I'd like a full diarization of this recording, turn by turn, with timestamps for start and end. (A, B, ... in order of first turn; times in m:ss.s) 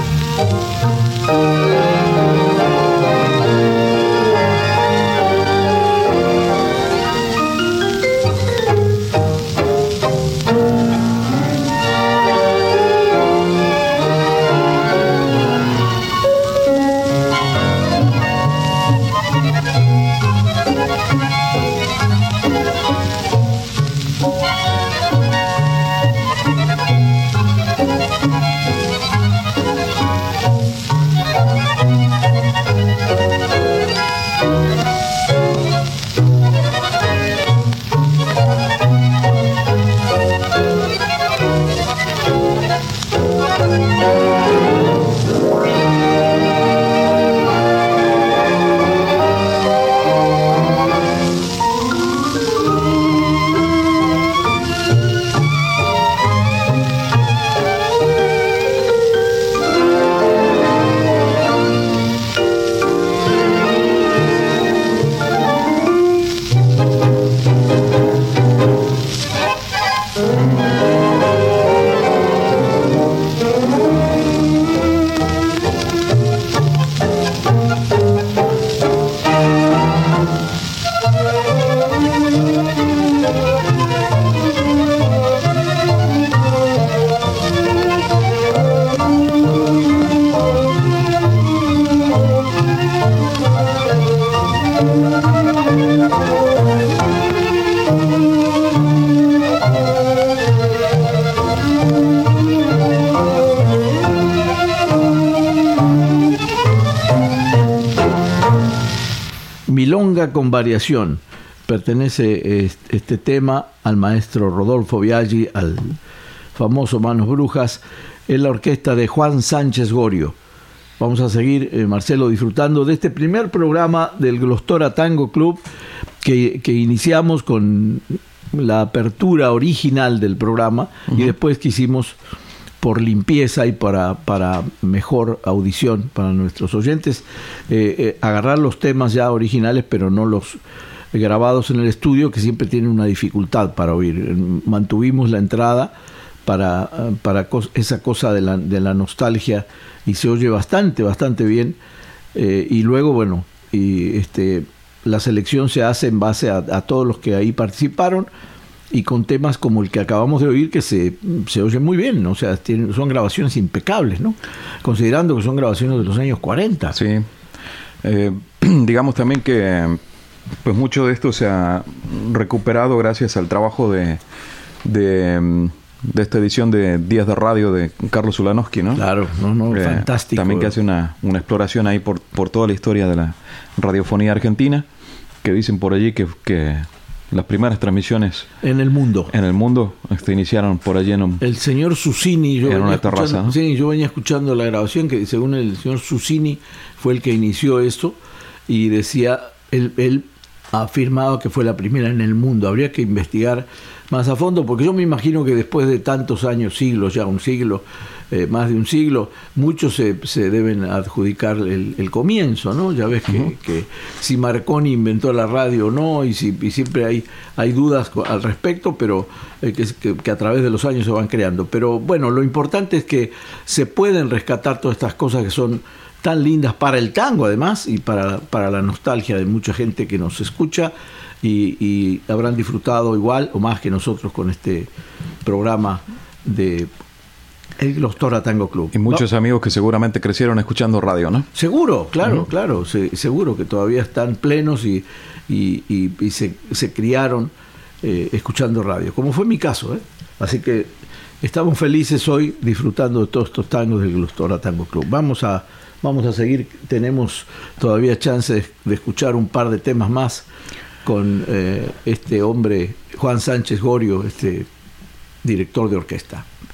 1:49.7-1:56.0 A
1:56.6-2:00.4 A
2:01.0-2:05.6 A
2:06.2-2:12.2 A
2:12.8-2:20.6 A
2:21.1-2:25.9 A
2:26.5-2:31.8 A
2:32.4-2:38.3 A
2:38.9-2:47.0 A
2:46.9-2:47.3 B
2:48.0-2:50.0 B
2:50.6-2:54.2 B
2:54.8-2:59.0 B
2:59.0-3:00.7 A
2:59.7-3:04.9 B
3:05.4-3:08.5 B
3:08.6-3:09.3 A
3:09.3-3:11.4 B
3:11.4-3:18.2 A
3:12.6-3:13.6 B
3:18.7-3:54.9 A
3:55.4-3:56.9 A
3:57.8-3:59.2 A
3:58.9-4:01.5 B
4:01.6-4:20.5 A
4:21.0-4:24.7 A
4:25.4-4:26.4 A